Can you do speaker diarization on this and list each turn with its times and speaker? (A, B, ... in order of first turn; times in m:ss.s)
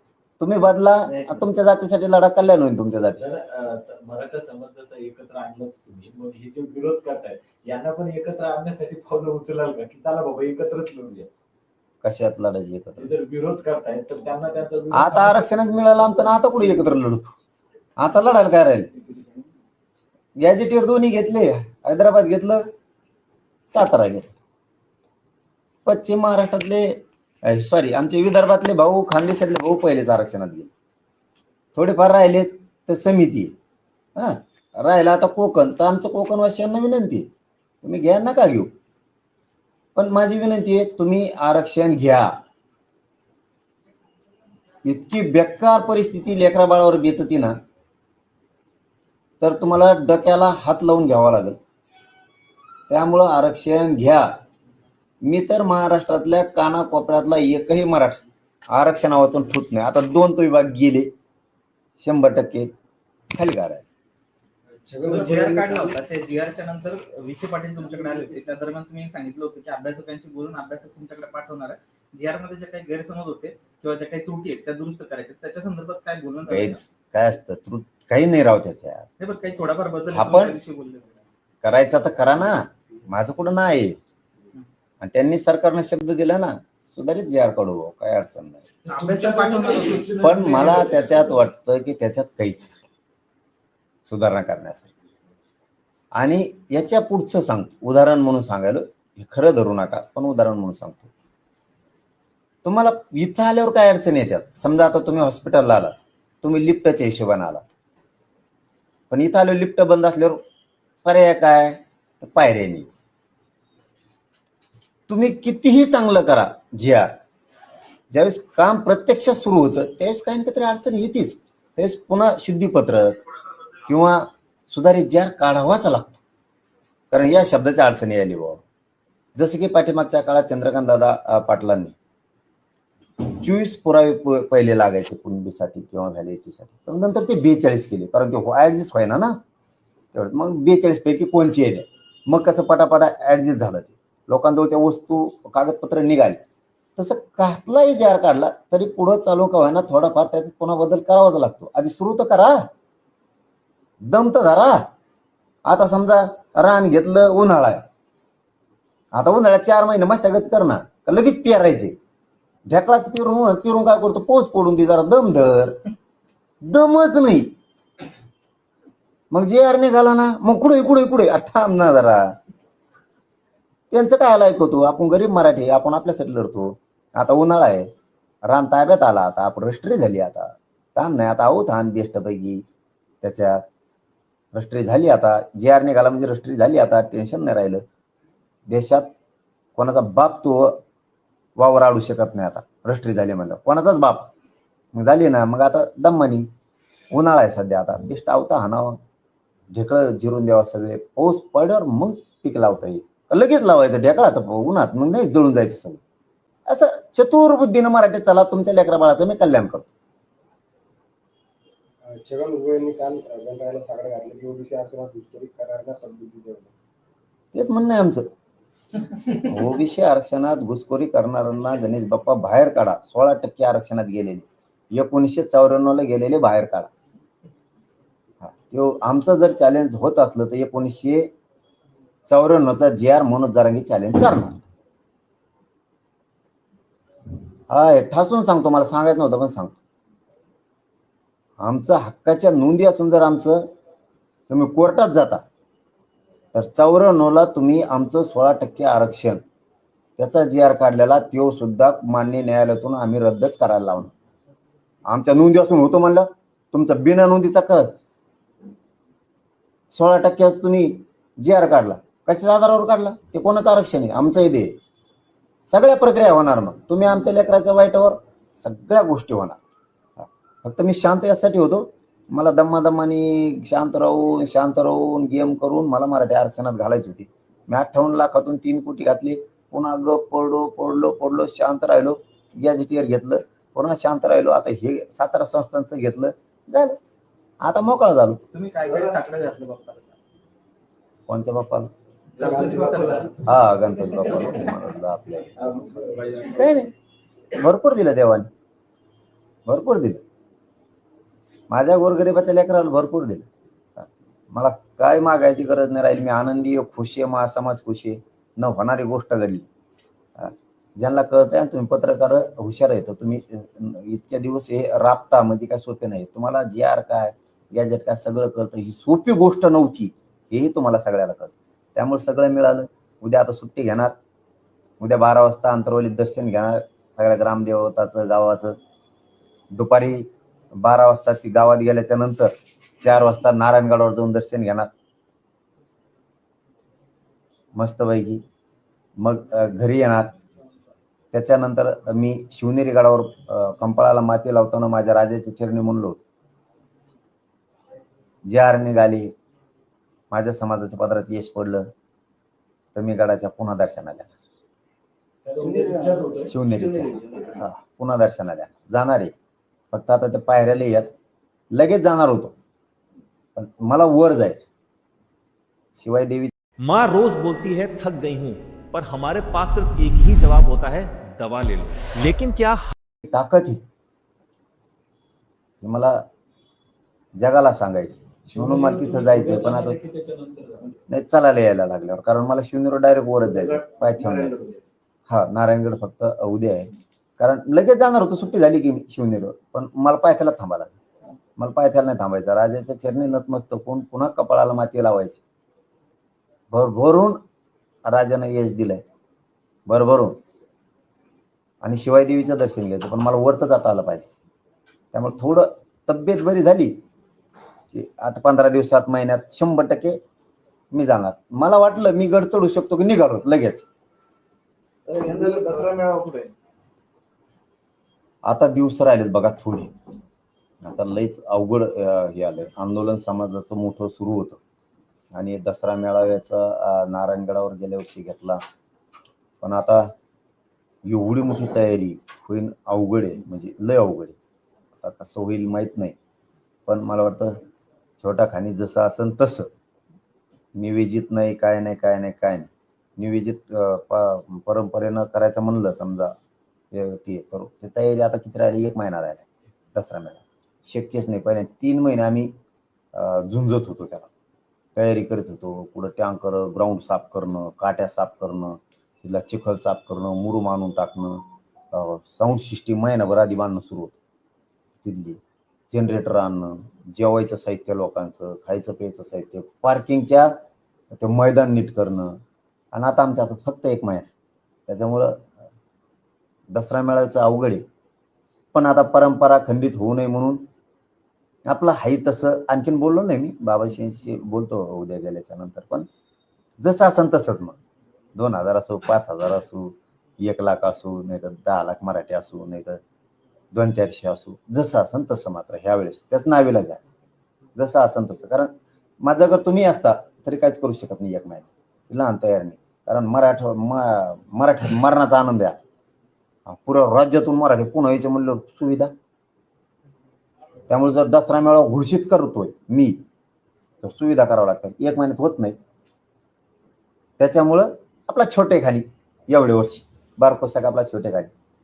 0:00.4-0:03.3 A
0:03.2-0:11.3 B
0:12.0-0:13.1 A
0:13.0-0:15.5 B
0:14.9-0:17.3 A
0:18.0-0:18.9 A
0:20.4-0:22.6 A
0:23.7-0:24.3 A
0:25.8-0:30.7 A
0:31.7-0:33.5 A
0:34.2-0:37.3 A
0:37.8-0:38.7 A
0:39.9-0:42.3 A
0:44.8-0:47.6 A
0:49.4-0:51.6 A
0:52.9-0:54.3 A
0:55.2-0:58.2 A
0:58.7-1:01.1 A
1:02.0-1:02.7 A
1:03.3-1:03.8 A
1:04.7-1:06.0 C
1:05.0-1:16.8 D
1:07.9-1:08.4 C
1:16.5-1:19.1 A
1:19.2-1:21.1 D
1:20.1-1:20.6 A
1:21.6-1:24.0 A
1:25.0-1:28.6 A
1:28.8-1:31.4 B
1:28.9-1:30.2 D
1:30.2-1:32.8 A
1:34.0-1:34.9 A
1:36.2-1:41.1 A
1:42.6-1:47.6 A
1:49.1-1:50.4 A
1:51.0-1:52.9 A
1:55.1-1:57.1 A
1:58.1-2:03.2 A
2:03.8-2:06.2 A
2:07.1-2:08.6 A
2:09.4-2:11.9 A
2:13.2-2:19.4 A
2:20.1-2:26.4 A
2:27.0-2:32.7 A
2:34.0-2:34.8 A
2:35.6-2:37.8 A
2:39.1-2:42.0 A
2:42.7-2:45.8 A
2:46.6-2:47.5 A
2:49.3-2:52.3 A
2:53.9-2:57.9 A
2:58.5-3:02.6 A
3:03.2-3:03.6 A
3:04.5-3:07.8 A
3:08.7-3:09.1 A
3:09.8-3:10.8 A
3:11.6-3:14.3 A
3:14.9-3:16.5 A
3:17.1-3:19.0 A
3:19.7-3:26.0 A
3:26.7-3:29.9 A
3:32.0-3:36.7 C
3:37.5-3:38.3 A
3:39.4-3:46.9 A
3:48.4-3:51.3 A
3:52.3-3:54.6 A
3:57.7-3:59.7 A
4:01.6-4:03.7 A
4:04.5-4:05.4 A
4:06.5-4:09.4 A
4:10.2-4:14.1 A
4:15.1-4:17.9 A
4:19.9-4:24.7 A
4:25.7-4:29.6 A
4:30.2-4:47.0 A
4:47.6-4:48.4 A
4:48.5-4:50.2 D
4:51.3-4:51.9 A
4:52.4-4:53.3 D
4:52.4-4:53.4 C
4:52.4-4:53.2 B
4:53.4-4:55.5 A
4:55.6-4:56.7 E
4:55.6-4:56.4 C
4:56.5-4:56.9 A
4:57.5-4:58.5 A
4:59.7-5:00.2 A
5:01.7-5:09.7 A
5:10.4-5:24.1 A
5:25.0-5:28.8 A
5:29.7-5:34.9 A
5:37.7-5:38.4 A
5:39.2-5:40.3 A
5:41.3-5:46.2 A
5:48.4-5:49.3 A
5:50.3-5:51.8 A
5:52.9-5:54.3 A
5:55.4-5:56.5 B
5:55.5-5:57.6 E
5:56.5-5:59.3 A
5:59.9-6:01.1 A
6:01.7-6:02.5 A
6:03.6-6:04.7 A
6:06.0-6:06.5 A
6:06.8-6:12.9 F
6:13.2-6:13.8 A
6:15.8-6:16.2 A
6:17.4-6:20.0 A
6:18.5-6:20.9 B
6:21.1-6:24.6 A
6:23.4-6:24.8 E
6:25.3-6:31.0 A
6:31.6-6:35.4 A
6:36.7-6:37.4 A
6:38.0-6:39.0 A
6:39.9-6:40.4 A
6:41.8-6:44.3 A
6:45.1-6:47.0 A
6:47.9-6:50.2 A
6:50.9-6:53.8 A
6:55.0-6:56.5 E
6:55.3-6:55.5 C
6:58.4-6:59.9 A
7:00.8-7:04.6 A
7:05.3-7:08.6 A
7:09.6-7:10.1 A
7:11.0-7:14.4 A
7:15.0-7:16.1 A
7:16.9-7:17.6 A
7:18.2-7:19.7 A
7:20.7-7:26.3 A
7:26.9-7:32.5 A
7:33.1-7:34.3 A
7:34.9-7:44.2 A
7:45.0-7:50.5 A
7:51.1-7:52.4 A
7:52.9-7:54.3 A
7:54.9-7:55.5 A
7:56.7-7:57.8 A
7:58.7-8:00.6 A
8:01.7-8:06.1 A
8:06.8-8:07.8 A
8:08.3-8:13.0 A
8:13.7-8:17.0 A
8:17.8-8:25.8 A
8:26.7-8:29.1 A
8:30.9-8:33.2 A
8:34.0-8:35.8 A
8:37.4-8:41.5 A